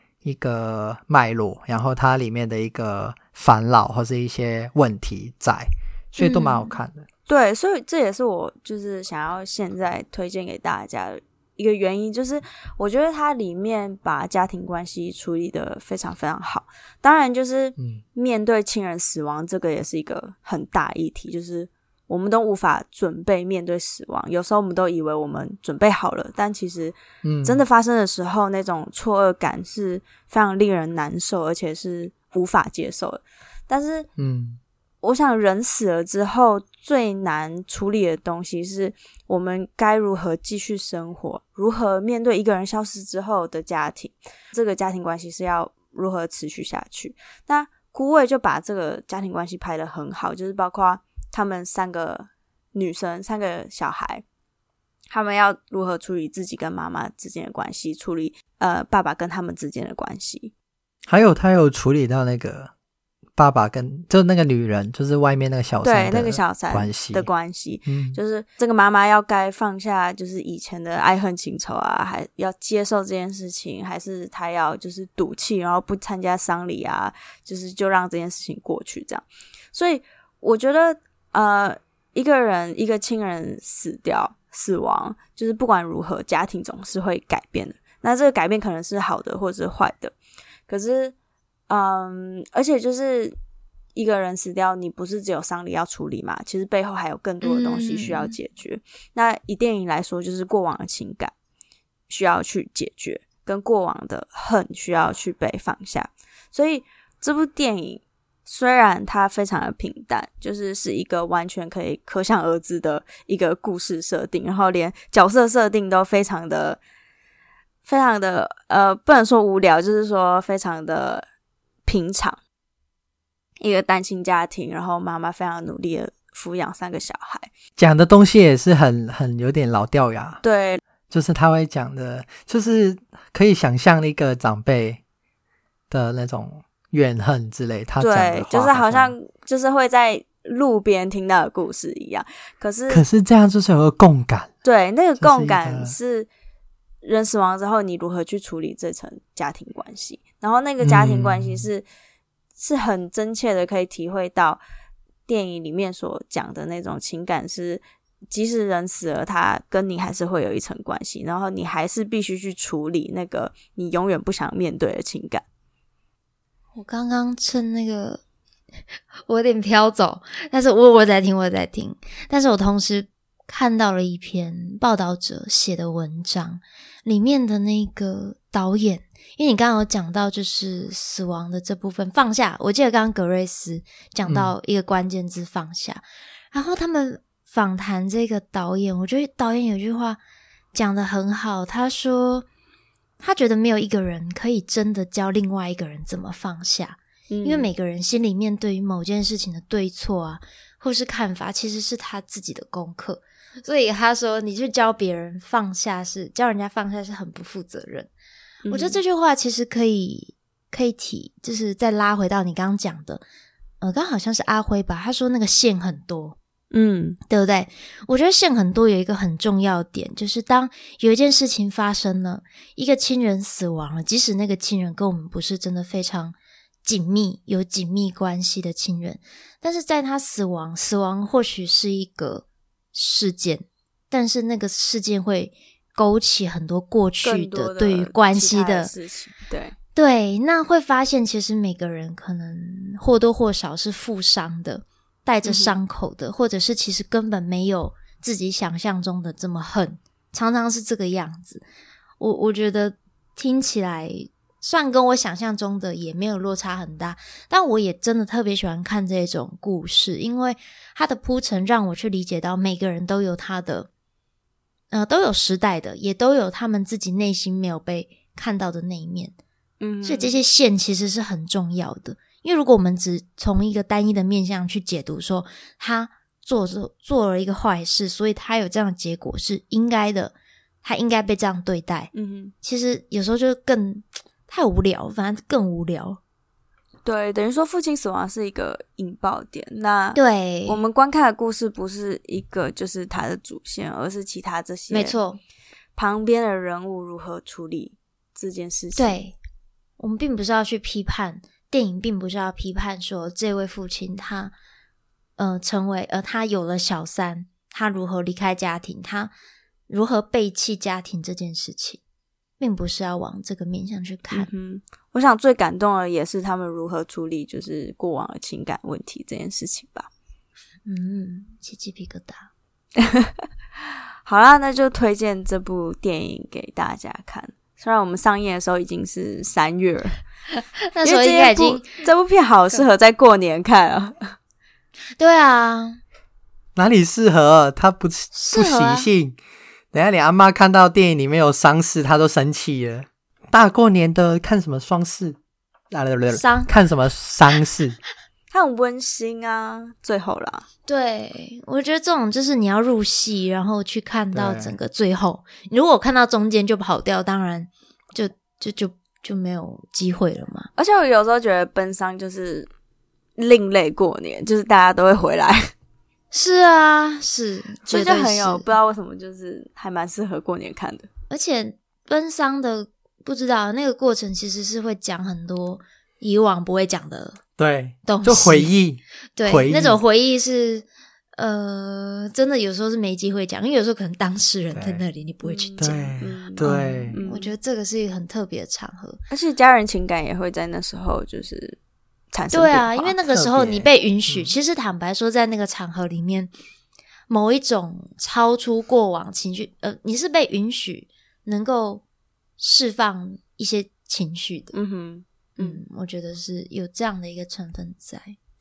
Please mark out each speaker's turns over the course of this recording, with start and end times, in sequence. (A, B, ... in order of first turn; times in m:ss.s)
0:00.2-0:07.1 A
0:06.2-0:06.8 B
0:07.3-0:34.1 C
0:27.2-0:27.6 A
0:34.2-0:34.6 A
0:35.0-0:54.2 C
0:55.1-1:00.5 C
1:01.1-1:02.7 A
1:03.4-1:07.3 A
1:05.8-1:30.1 C
1:07.9-1:08.2 A
1:30.7-1:31.2 C
1:31.7-1:33.4 C
1:34.0-1:41.3 C
1:37.4-1:38.4 B
1:42.1-1:56.8 C
1:57.8-2:01.3 C
2:01.9-2:02.4 C
2:03.6-2:07.5 C
2:07.8-2:10.4 A
2:10.4-2:10.8 C
2:11.1-2:15.0 A
2:15.9-2:19.1 A
2:18.0-2:23.0 C
2:22.9-2:24.5 A
2:24.6-2:26.3 C
2:25.2-2:26.0 A
2:27.0-2:31.8 C
2:30.8-2:31.7 A
2:32.6-2:34.6 C
2:35.3-2:45.4 C
2:46.7-2:48.2 B
2:49.2-3:10.2 B
3:04.3-3:04.5 A
3:10.7-3:12.5 B
3:13.2-3:28.1 B
3:17.3-3:17.7 C
3:28.7-3:29.0 C
3:28.7-3:33.2 B
3:33.8-3:36.4 B
3:36.7-3:37.2 C
3:37.3-3:58.9 B
3:57.2-3:59.7 C
4:00.0-4:11.6 B
4:05.4-4:05.8 C
4:12.2-4:23.9 B
4:24.9-4:29.4 B
4:29.8-4:30.4 C
4:30.0-4:42.1 B
4:42.1-4:42.5 C
4:42.6-4:46.2 B
4:47.0-4:55.2 C
4:50.1-4:50.8 B
4:54.9-4:55.4 B
4:56.0-4:59.2 C
4:59.0-4:59.4 B
5:00.0-5:04.6 B
5:05.4-5:09.3 B
5:09.9-5:12.0 B
5:12.6-5:14.5 B
5:14.3-5:20.1 C
5:20.9-5:22.5 B
5:24.2-5:30.2 C
5:30.5-5:32.0 B
5:31.0-5:34.3 C
5:35.2-5:36.0 B
5:36.8-5:39.4 A
5:38.3-5:39.1 B
5:39.9-5:45.4 A
5:45.9-5:48.0 A
5:46.3-5:46.7 B
5:48.5-5:50.6 C
5:50.9-6:00.7 B
5:54.3-5:54.8 A
6:00.8-6:02.7 C
6:03.4-6:05.6 C
6:06.3-6:08.7 B
6:07.9-6:11.1 C
6:11.3-6:17.4 B
6:17.6-6:20.0 A
6:18.0-6:18.8 B
6:19.4-6:29.2 B
6:24.7-6:25.0 A
6:25.4-6:27.5 C
6:25.8-6:27.2 A
6:29.3-6:31.8 C
6:32.3-6:33.2 C
6:32.5-6:36.5 B
6:33.3-6:34.5 A
6:37.3-6:42.0 B
6:42.6-6:44.7 B
6:44.7-6:45.8 C
6:45.6-6:48.4 B